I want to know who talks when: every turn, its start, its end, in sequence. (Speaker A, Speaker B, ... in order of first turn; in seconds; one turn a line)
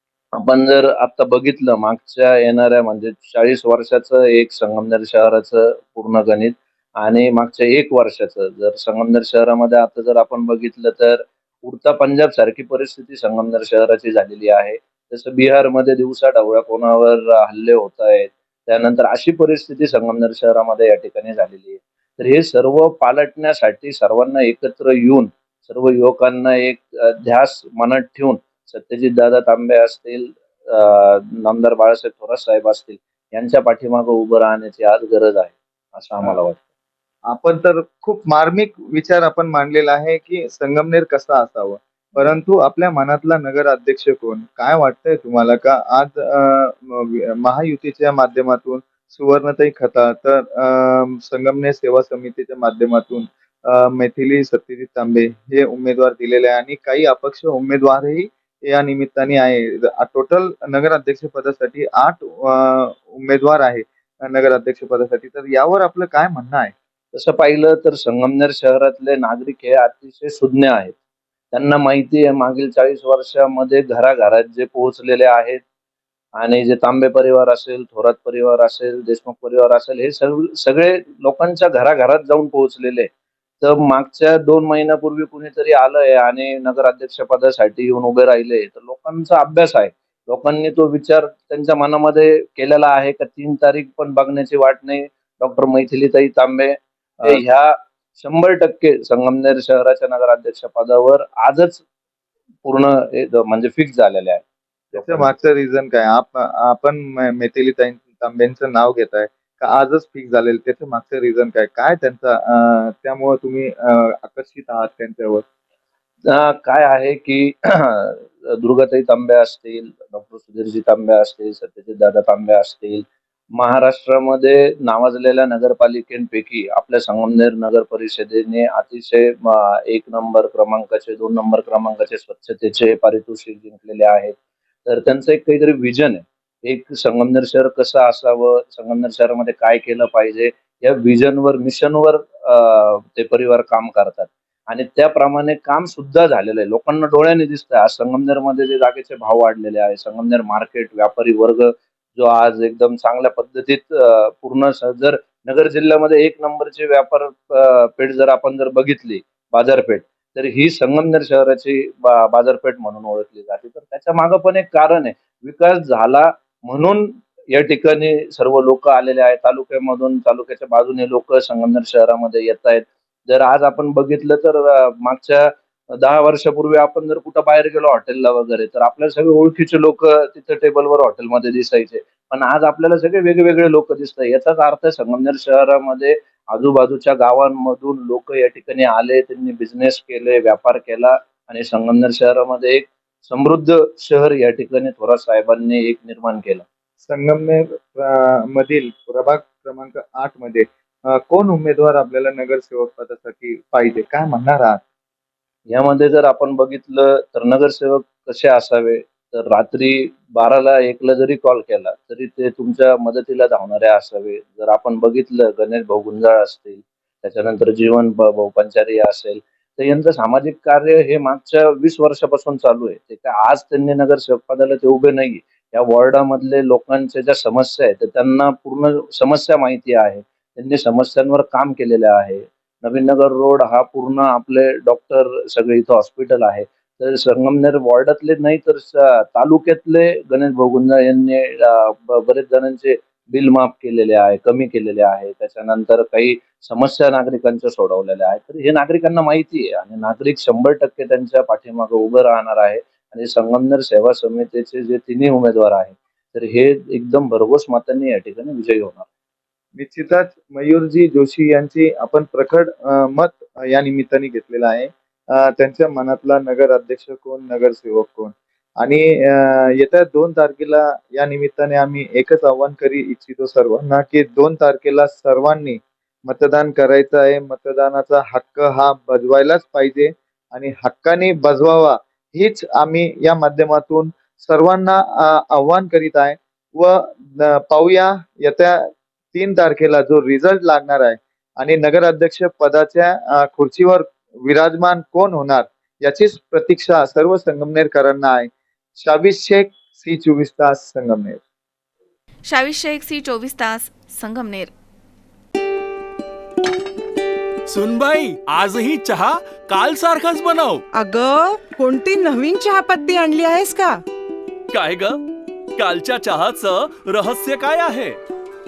Speaker A: 0.3-36.6
Speaker B: 37.3-66.7
Speaker A: 67.1-71.0
Speaker A: 71.5-75.6
Speaker A: 76.4-83.1
Speaker A: 83.6-101.8
Speaker A: 102.6-105.3
Speaker B: 104.9-115.4
Speaker A: 116.3-196.6
Speaker B: 197.0-204.8
Speaker A: 205.7-259.1
Speaker B: 259.8-288.8
Speaker B: 289.3-301.4
Speaker C: 302.4-304.7
Speaker D: 307.7-310.8
Speaker E: 310.9-314.0
Speaker D: 314.7-315.1
Speaker D: 315.8-318.1